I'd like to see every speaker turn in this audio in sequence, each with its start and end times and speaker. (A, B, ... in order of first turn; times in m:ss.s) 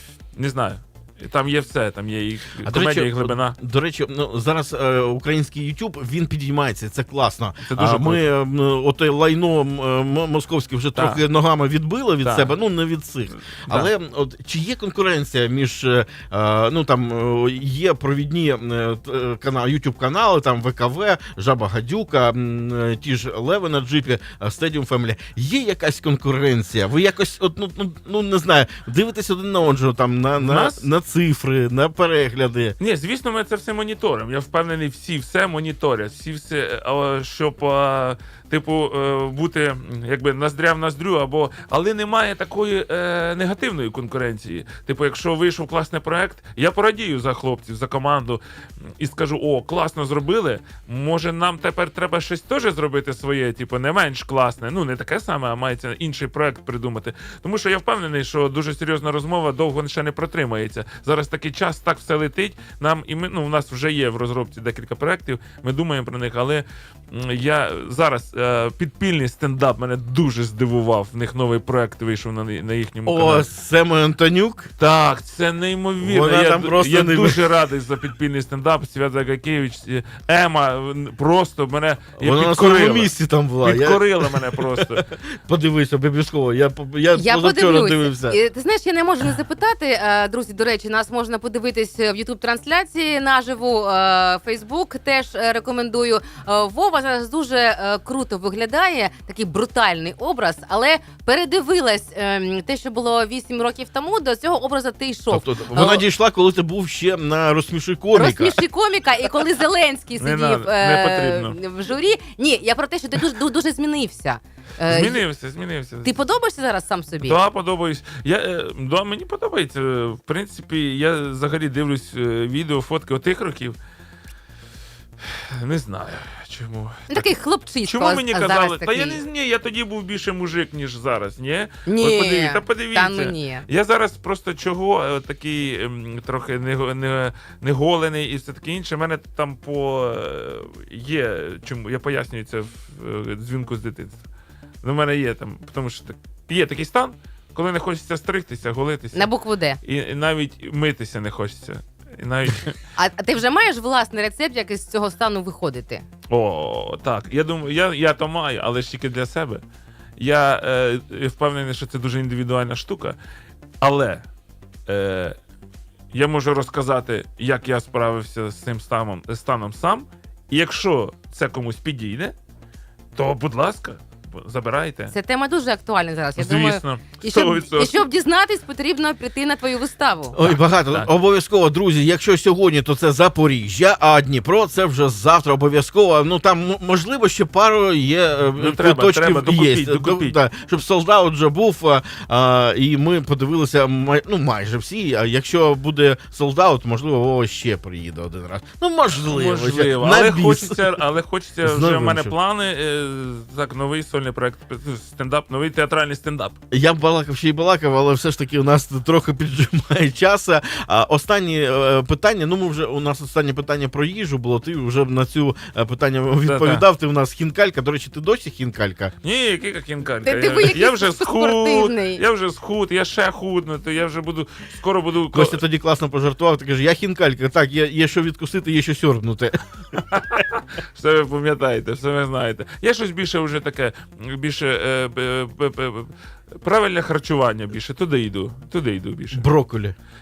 0:00.3-0:03.6 A
0:02.6-0:32.7 B
0:07.6-0:08.2 A
0:10.9-0:11.2 A
0:12.2-0:12.5 A
0:13.5-0:13.9 A
0:30.4-0:30.8 A
0:32.8-0:48.4 A
0:49.0-1:13.5 A
1:13.0-1:14.7 B
1:14.8-1:25.0 A
1:16.0-1:17.4 B
1:22.2-1:28.4 B
1:27.1-1:46.0 C
1:45.3-1:48.6 B
1:48.1-1:55.2 C
1:50.2-1:51.6 A
1:54.9-1:56.1 A
1:56.0-1:57.4 C
1:57.2-2:03.8 A
2:05.2-2:07.3 A
2:07.1-2:09.2 C
2:07.8-2:24.2 A
2:11.8-2:13.6 C
2:24.8-2:29.3 A
2:29.1-2:29.8 C
2:29.8-2:32.8 A
2:33.0-2:36.0 C
2:36.3-2:39.6 A
2:40.2-2:43.2 A
2:43.8-2:44.2 A
2:44.9-2:45.4 A
2:46.1-2:52.3 A
2:53.2-2:55.1 A
2:55.1-3:00.4 C
2:56.4-2:58.0 A
3:00.3-3:20.8 B
3:00.4-3:01.1 A
3:08.6-3:10.4 A
3:19.1-3:26.6 A
3:21.6-3:22.3 B
3:26.7-3:39.1 B
3:36.4-3:36.8 A
3:39.2-3:45.6 A
3:40.2-3:42.2 C
3:45.3-3:49.6 B
3:49.9-3:59.4 A
3:59.3-3:59.9 B